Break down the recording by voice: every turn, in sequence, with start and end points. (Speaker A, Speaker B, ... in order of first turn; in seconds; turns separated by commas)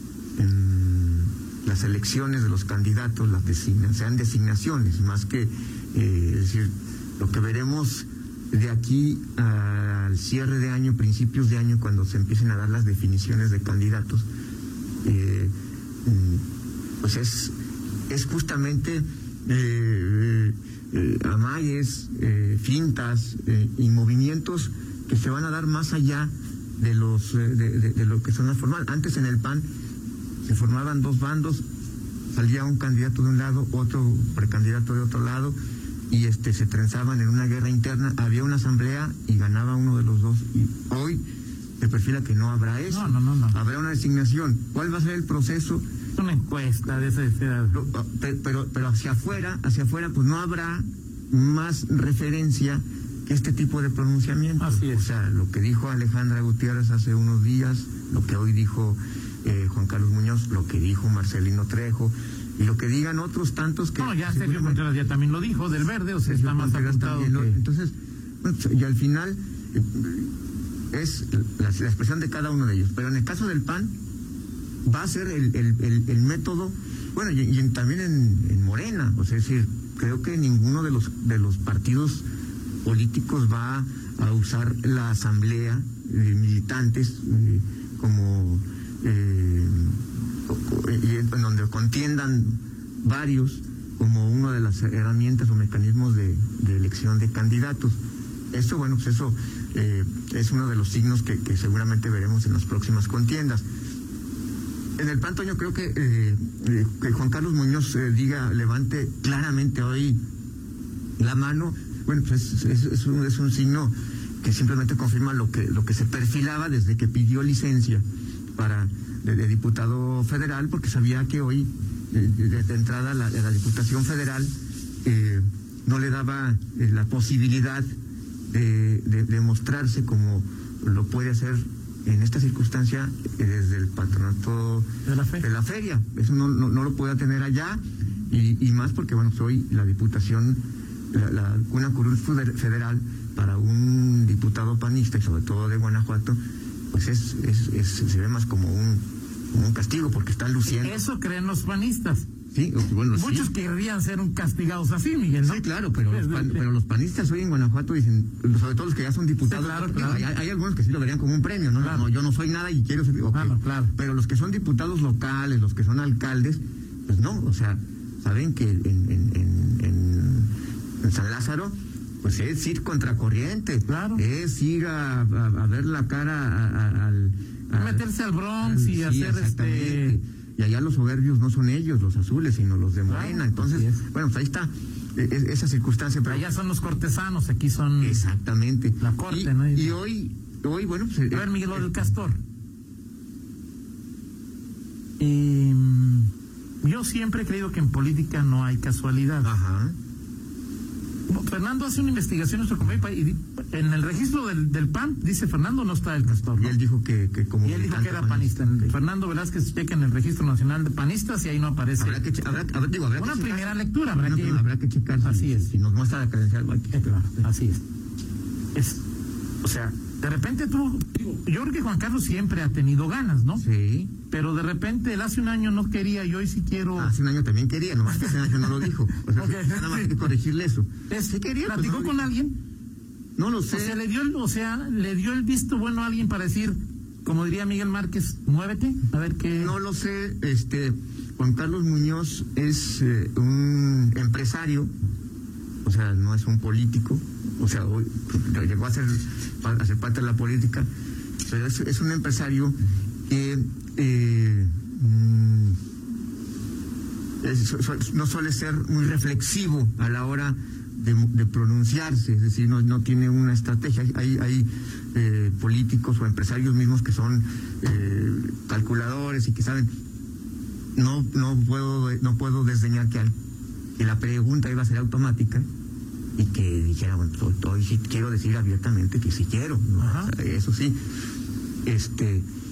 Speaker A: 0.4-14.2, Speaker A: 15.0-15.5, Speaker A: 16.0-16.4, Speaker A: 17.0-17.5, Speaker A: 18.1-29.6, Speaker A: 30.4-31.6, Speaker A: 32.3-35.5, Speaker A: 36.1-41.2, Speaker A: 41.8-45.8, Speaker B: 42.9-43.6, Speaker B: 46.2-47.8, Speaker A: 47.7-64.8, Speaker B: 54.6-55.0, Speaker B: 64.0-67.6, Speaker A: 66.2-70.3, Speaker A: 70.9-73.9, Speaker A: 74.8-82.2, Speaker A: 82.8-98.0, Speaker A: 98.5-103.6, Speaker A: 105.0-110.2, Speaker A: 111.2-118.0, Speaker A: 118.5-124.5, Speaker A: 125.0-127.9, Speaker A: 128.5-134.9, Speaker B: 135.1-135.4, Speaker A: 135.4-137.8, Speaker A: 138.3-146.4, Speaker A: 146.9-151.0, Speaker B: 150.8-152.2, Speaker A: 152.5-153.5, Speaker B: 153.1-156.6, Speaker A: 155.4-170.5, Speaker B: 159.5-160.2, Speaker B: 161.8-162.1, Speaker B: 163.3-163.9, Speaker A: 171.0-178.0, Speaker B: 173.9-174.2, Speaker B: 177.8-180.2, Speaker A: 178.6-186.5, Speaker B: 183.1-184.0, Speaker B: 186.3-188.2, Speaker A: 188.0-191.9, Speaker B: 189.0-189.9, Speaker B: 191.3-192.4, Speaker B: 195.2-196.3, Speaker B: 196.8-199.5, Speaker A: 199.4-199.9, Speaker B: 201.3-206.8, Speaker A: 206.3-208.9, Speaker B: 207.6-212.2, Speaker A: 212.0-217.4, Speaker B: 213.2-214.6, Speaker B: 215.2-215.7, Speaker B: 216.9-217.8, Speaker B: 218.7-219.0, Speaker B: 219.6-223.6, Speaker A: 223.6-224.1, Speaker B: 224.3-227.1, Speaker A: 227.0-232.3, Speaker B: 229.4-230.1, Speaker B: 231.1-232.6, Speaker A: 233.4-234.0, Speaker B: 233.7-239.7, Speaker A: 239.6-244.9, Speaker A: 245.8-250.9, Speaker A: 251.4-252.7, Speaker A: 253.3-255.8, Speaker A: 257.4-269.9, Speaker A: 270.9-273.3, Speaker A: 274.0-275.6, Speaker A: 276.4-281.0, Speaker B: 280.0-280.3, Speaker A: 281.9-282.4